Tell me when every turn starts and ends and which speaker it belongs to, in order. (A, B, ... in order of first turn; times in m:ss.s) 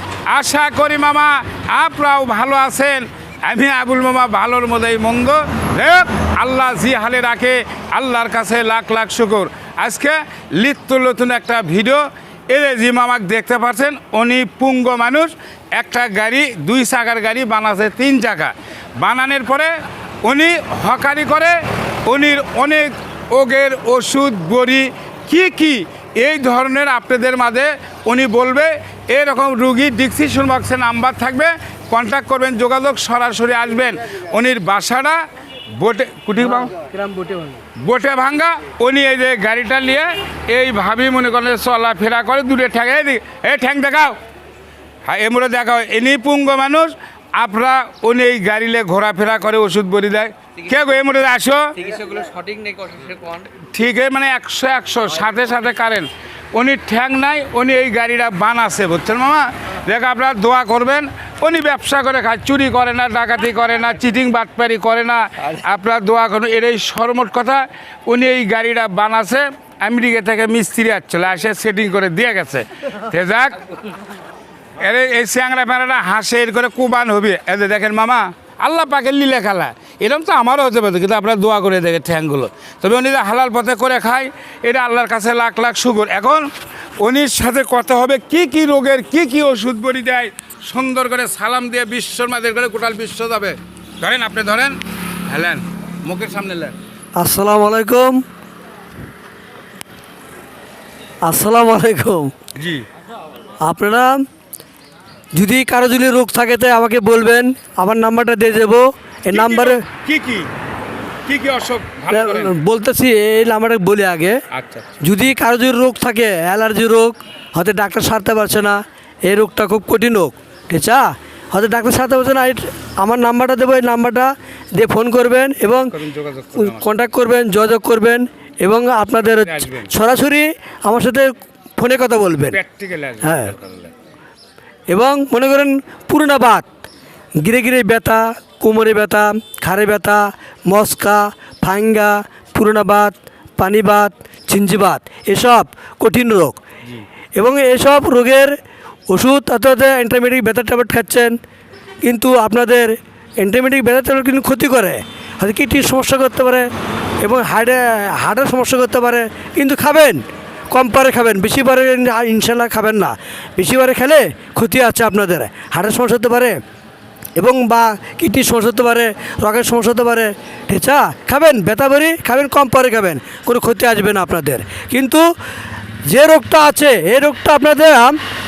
0:00.3-0:19.7 A
0:20.2-0:35.2 A
0:35.8-0:36.8 A
0:36.8-0:37.4 B
0:36.8-0:37.5 C
0:37.8-0:44.2 A
0:45.0-0:51.7 A
0:51.8-0:53.5 B
0:53.6-1:13.7 A
1:14.8-1:26.5 A
1:27.0-1:36.7 A
1:37.2-1:38.2 C
1:41.2-1:42.3 C
1:42.6-1:42.8 A
1:43.6-1:44.2 C
1:45.3-1:49.8 C
1:49.3-1:50.5 A
1:51.2-1:52.6 A
1:52.1-1:54.4 C
1:54.5-1:54.9 A
1:55.0-2:05.9 C
2:05.7-2:07.0 A
2:06.6-2:12.6 C
2:09.3-2:09.9 A
2:12.5-2:13.9 A
2:13.2-2:13.5 C
2:14.9-2:16.7 C
2:17.4-2:26.6 C
2:27.4-2:28.5 C
2:29.1-2:31.3 C
2:32.0-2:36.7 C
2:37.2-2:46.6 C
2:47.4-2:55.2 C
2:56.1-2:58.2 C